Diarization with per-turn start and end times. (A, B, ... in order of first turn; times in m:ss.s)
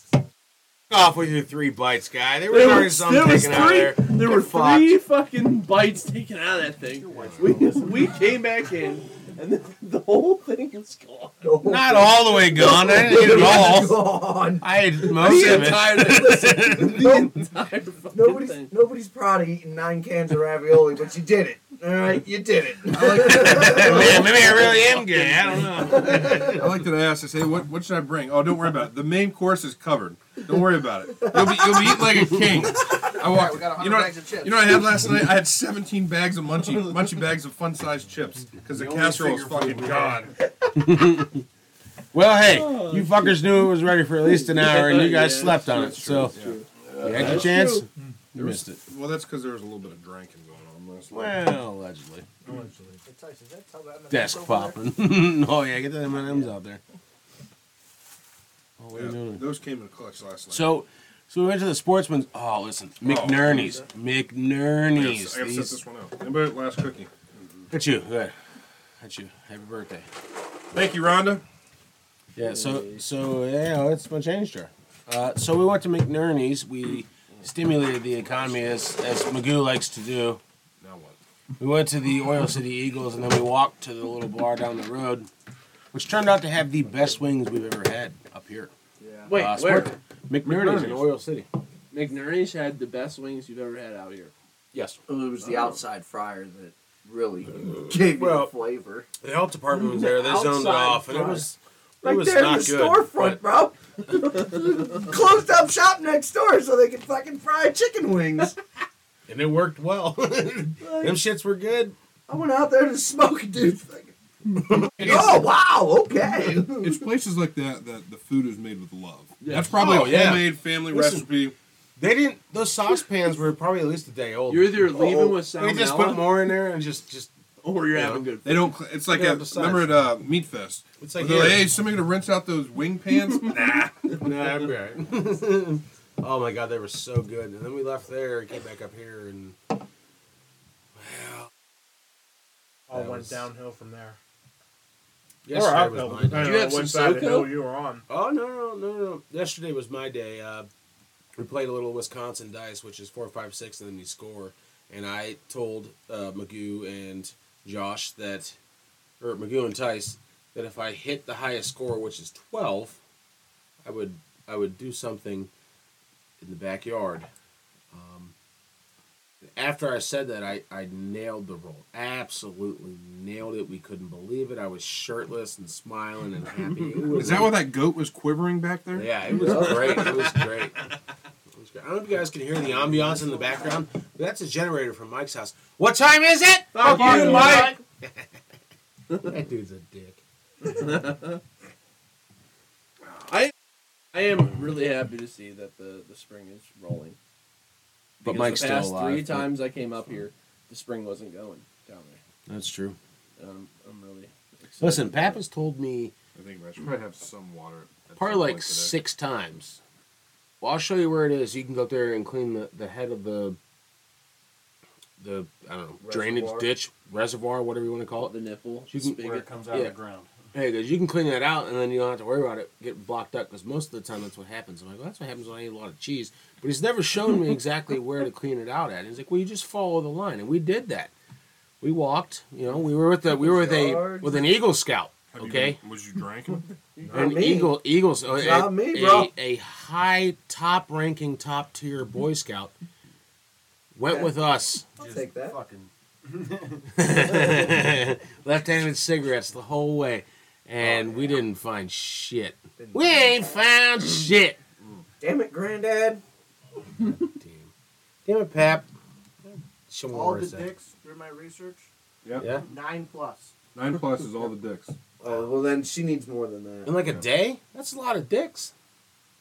0:00.9-0:05.0 A
0:02.5-0:11.4 B
0:06.9-0:08.2 C
0:11.4-0:14.6 D
0:11.6-0:14.0 A
0:14.6-0:17.1 A
0:15.1-0:18.7 B
0:15.2-0:17.4 D
0:18.1-0:24.4 D
0:22.9-0:24.8 E
0:23.2-0:26.8 A
0:26.3-0:40.3 E
0:31.3-0:31.6 D
0:32.1-0:32.6 A
0:32.9-0:34.9 F
0:38.6-0:40.4 C
0:40.8-0:41.4 A
0:42.1-0:46.3 A
0:42.4-0:47.8 B
0:45.6-0:47.6 E
0:47.0-0:48.8 A
0:48.4-0:51.5 E
0:51.1-0:52.3 A
0:52.4-0:53.0 G
0:53.0-0:55.0 F
0:54.1-0:56.8 A
0:58.8-0:59.4 A
0:58.9-1:00.7 E
1:00.5-1:05.8 A
1:03.0-1:03.7 E
1:04.9-1:07.1 E
1:07.7-1:08.4 A
1:09.0-1:10.1 A
1:10.7-1:11.4 E
1:12.4-1:20.4 A
1:12.6-1:12.9 B
1:18.2-1:18.5 E
1:20.8-1:21.2 E
1:21.6-1:25.3 A
1:25.9-1:28.7 A
1:29.0-1:29.3 D
1:29.3-1:29.9 B
1:29.3-1:31.5 A
1:30.4-1:31.1 E
1:31.9-1:34.3 B
1:34.7-1:35.0 A
1:35.1-1:39.1 D
1:38.0-1:38.5 A
1:39.2-1:43.4 A
1:39.7-1:41.5 B
1:42.0-1:48.6 D
1:49.3-1:52.0 A
1:50.8-1:51.2 D
1:52.3-1:54.1 D
1:54.6-1:55.4 A
1:55.0-1:57.0 D
1:56.7-2:01.6 E
1:59.4-2:00.0 B
1:59.7-2:01.3 A
2:02.0-2:07.3 A
2:04.5-2:06.5 B
2:07.6-2:08.8 B
2:07.9-2:08.3 A
2:08.4-2:14.1 E
2:09.1-2:10.0 A
2:11.0-2:11.7 A
2:14.0-2:19.7 A
2:21.0-2:21.5 A
2:22.9-2:24.2 G
2:22.9-2:23.5 A
2:25.4-2:26.6 A
2:25.5-2:28.1 G
2:26.3-2:27.6 B
2:28.1-2:30.7 A
2:31.4-2:38.6 A
2:39.2-2:43.0 A
2:43.8-2:45.5 A
2:46.4-2:47.3 A
2:47.9-2:48.3 A
2:49.4-2:57.6 A
2:57.1-2:59.1 E
2:58.9-3:00.8 A
2:59.3-3:00.4 B
3:01.5-3:08.2 A
3:06.7-3:07.8 B
3:06.8-3:07.7 G
3:09.2-3:10.2 A
3:10.6-3:11.4 B
3:13.3-3:13.5 B
3:14.1-3:17.2 B
3:18.2-3:22.2 B
3:18.2-3:19.6 A
3:22.5-3:23.0 A
3:23.4-3:25.4 B
3:24.8-3:26.1 A
3:26.4-3:29.0 E
3:28.2-3:29.8 A
3:30.6-3:33.6 A
3:35.2-3:38.4 A
3:36.0-3:36.7 D
3:38.2-3:39.5 B
3:38.9-3:40.0 A
3:39.0-3:40.3 C
3:40.5-3:51.1 A
3:51.8-3:55.8 A
3:53.2-3:54.5 D
3:55.3-3:56.7 E
3:57.0-3:59.3 D
3:57.1-4:02.7 A
4:04.0-4:04.9 A
4:04.1-4:04.3 D
4:05.0-4:07.2 C
4:05.0-4:05.6 D
4:07.0-4:14.6 A
4:12.8-4:13.6 D
4:15.2-4:16.2 D
4:17.0-4:17.7 A
4:18.2-4:18.9 A
4:19.9-4:20.7 A
4:20.1-4:21.9 F
4:22.2-4:22.5 E
4:22.6-4:23.5 F
4:23.7-4:25.0 E
4:25.2-4:27.0 D
4:26.8-4:28.7 A